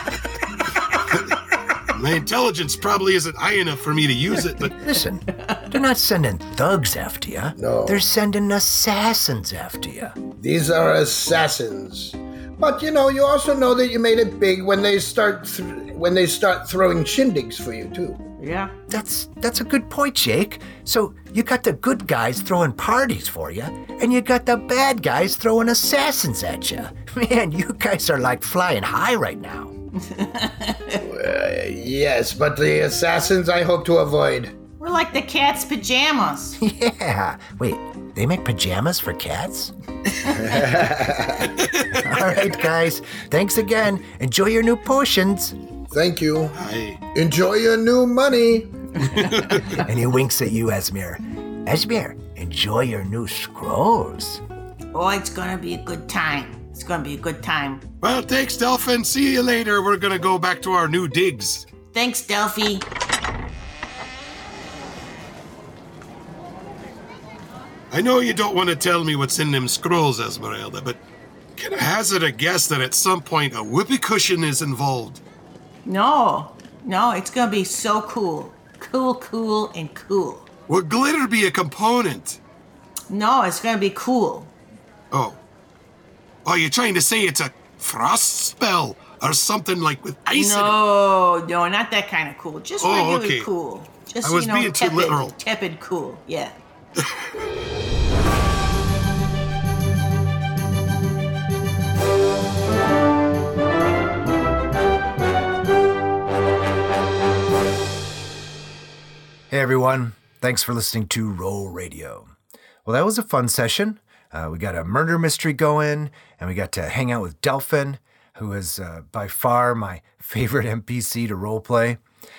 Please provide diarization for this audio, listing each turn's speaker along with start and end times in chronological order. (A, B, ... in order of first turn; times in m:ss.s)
0:00.9-0:04.8 A
0:04.8-0:10.2 B
0:07.6-0:08.0 C
0:10.4-0:18.2 C
0:18.4-0:18.7 D
0:18.9-0:29.7 B
0:30.0-0:31.0 D
0:30.9-0:34.6 C
0:34.8-0:36.6 D
0:36.6-0:39.7 B
0:40.3-0:41.6 C
0:41.6-0:42.0 A
0:41.9-0:45.5 B
0:45.9-0:46.6 C
0:46.5-0:47.0 A
0:47.1-0:49.2 C
0:49.1-0:49.6 A
0:49.7-0:54.4 B
0:54.9-0:57.8 D
0:58.0-1:01.6 A
1:01.9-1:02.8 D
1:07.9-1:11.0 A
1:11.6-1:15.2 A
1:15.8-1:20.5 D
1:20.7-1:22.4 A
1:23.1-1:24.5 D
1:25.1-1:25.4 A
1:26.4-1:30.8 A
1:30.3-1:36.5 D
1:32.8-1:33.5 A
1:34.2-1:35.4 A
1:49.5-1:52.3 B
1:52.8-2:02.0 B